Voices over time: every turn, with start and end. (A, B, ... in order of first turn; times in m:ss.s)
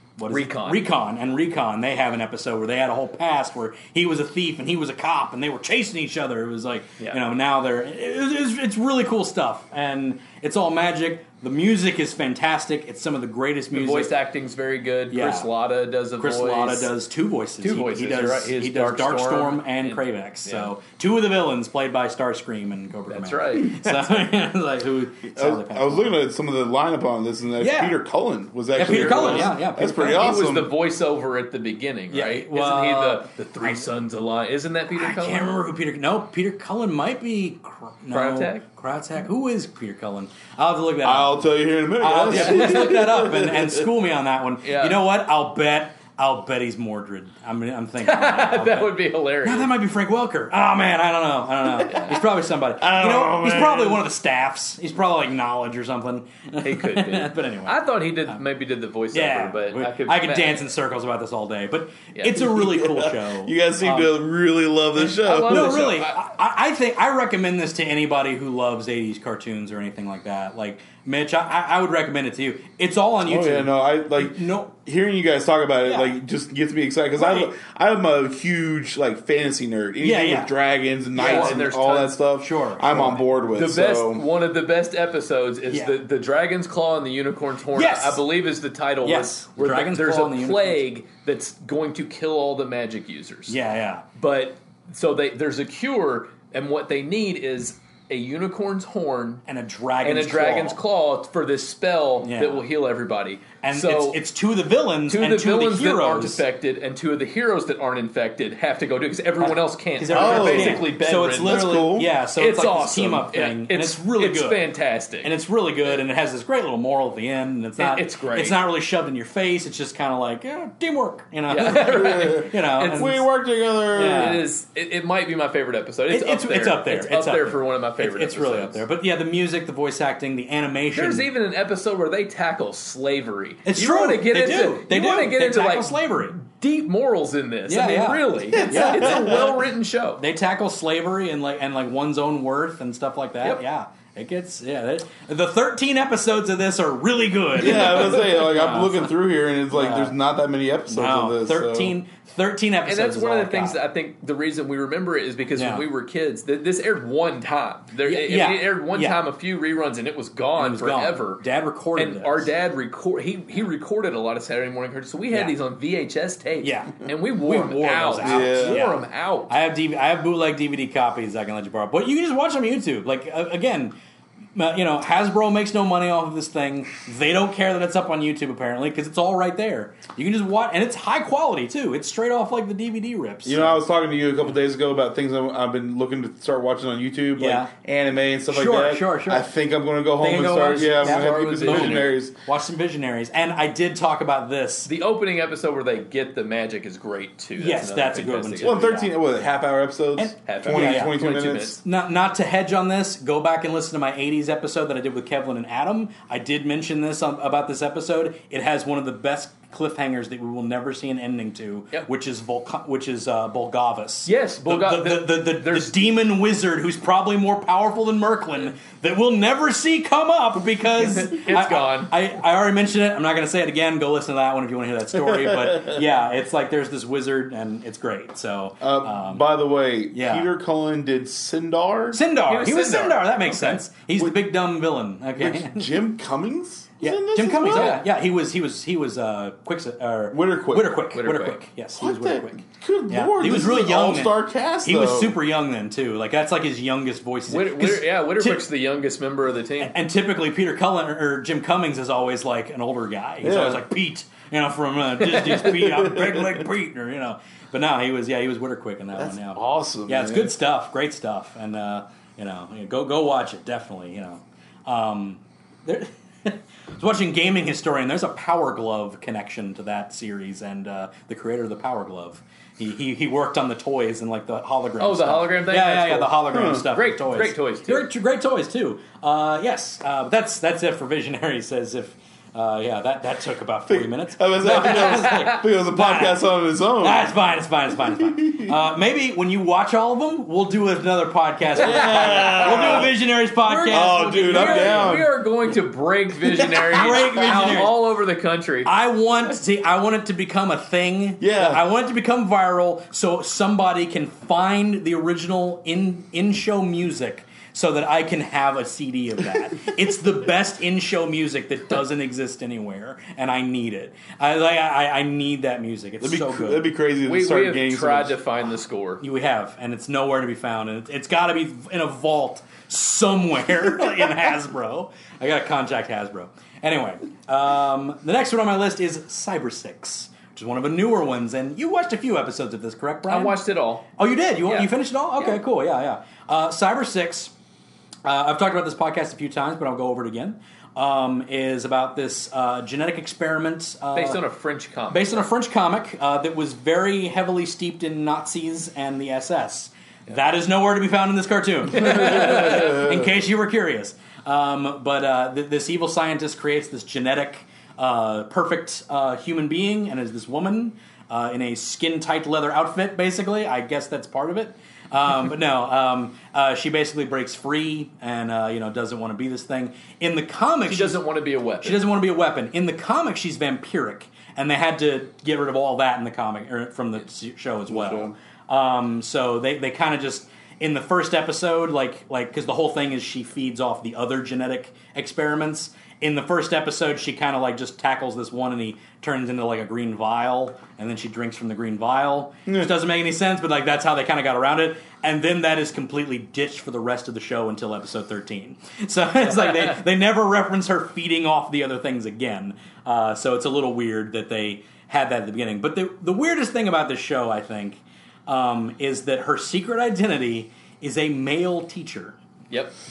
0:00.2-0:14.1 A
0:00.3-0:00.8 B
0:13.7-0:16.9 B
0:15.1-0:15.5 A
0:16.2-0:26.2 A
0:17.6-0:20.7 B
0:23.1-0:24.1 B
0:25.4-0:30.7 C
0:27.6-0:28.0 A
0:28.8-0:30.4 A
0:28.8-0:35.6 B
0:32.1-0:33.8 A
0:35.0-0:58.4 A
0:38.1-0:38.6 B
0:41.0-0:43.8 C
0:44.6-0:45.0 B
0:48.0-0:49.7 B
0:51.8-0:52.2 B
0:52.8-0:54.0 C
0:56.6-1:00.7 B
0:59.1-1:04.1 A
1:02.2-1:02.5 B
1:02.4-1:05.9 C
1:05.0-1:06.2 B
1:05.5-1:14.7 A
1:13.2-1:24.3 C
1:15.9-1:16.1 A
1:17.2-1:17.5 A
1:20.0-1:20.5 A
1:21.2-1:22.2 B
1:21.2-1:21.6 A
1:22.4-1:23.2 A
1:23.5-1:33.6 B
1:25.7-1:26.0 A
1:27.7-1:28.2 A
1:29.0-1:30.9 A
1:33.5-1:34.0 A
1:34.2-1:39.4 B
1:39.5-1:40.8 A
1:40.0-1:44.2 B
1:42.2-1:42.6 A
1:43.6-1:46.4 A
1:45.1-1:51.8 B
1:49.4-1:54.6 A
1:50.1-1:52.1 C
1:52.4-1:55.3 B
1:55.2-2:03.3 A
1:57.8-1:58.6 B
2:01.5-2:03.2 B
2:01.9-2:04.4 C
2:03.9-2:08.8 B
2:03.9-2:04.4 A
2:06.1-2:11.3 A
2:10.9-2:20.2 B
2:13.6-2:16.4 A
2:17.7-2:19.4 A
2:18.5-2:19.4 C
2:20.2-2:29.2 A
2:27.6-2:31.9 C
2:29.7-2:30.2 A
2:30.9-2:33.8 A
2:32.9-2:41.4 B
2:35.6-2:35.9 A
2:38.0-2:39.2 A
2:40.6-2:42.5 A
2:42.0-2:49.5 B
2:46.6-2:53.9 A
2:48.2-2:48.9 C
2:54.6-3:03.8 A
3:03.4-3:12.3 C
3:07.4-3:07.7 A
3:08.5-3:09.5 A
3:10.2-3:14.9 A
3:10.9-3:12.2 B
3:14.9-3:18.9 B
3:17.6-3:19.1 A
3:18.6-3:21.8 C
3:20.2-3:21.2 A
3:20.5-3:21.8 B
3:21.8-3:49.4 A
3:34.3-3:36.0 B
3:41.1-3:42.1 B
3:45.4-3:46.0 C
3:48.8-3:52.2 C
3:50.1-3:50.5 A
3:52.1-3:55.9 A
3:52.4-3:53.8 B
3:55.4-3:58.0 C
3:57.0-4:08.6 A
3:57.7-3:58.0 B
4:00.3-4:01.0 C
4:01.1-4:01.6 B
4:02.0-4:05.4 C
4:07.5-4:10.0 B
4:09.8-4:46.5 A
4:13.4-4:13.9 C
4:15.3-4:15.7 B
4:15.7-4:16.6 C
4:19.2-4:20.5 C
4:35.0-4:38.1 B
4:36.5-4:36.9 C
4:43.9-4:47.3 C
4:44.8-4:45.5 B
4:47.0-4:55.2 A
4:48.4-4:48.7 C
4:51.8-4:53.1 C
4:51.8-4:53.1 B
4:53.6-4:58.9 B
4:53.9-4:55.3 C
4:56.6-4:57.8 C
4:56.9-4:58.0 A
4:58.8-5:16.9 A
5:01.4-5:01.8 C
5:16.2-5:18.4 C
5:17.3-5:19.2 B
5:19.2-5:33.6 A
5:33.3-5:34.1 B
5:34.2-5:37.5 A
5:34.6-5:35.6 B
5:38.2-5:44.4 A
5:44.2-5:45.5 B
5:45.1-6:11.2 A
5:52.0-5:53.0 B
5:52.7-5:53.2 C
6:10.9-6:12.0 B
6:11.8-6:52.4 A
6:17.9-6:18.3 C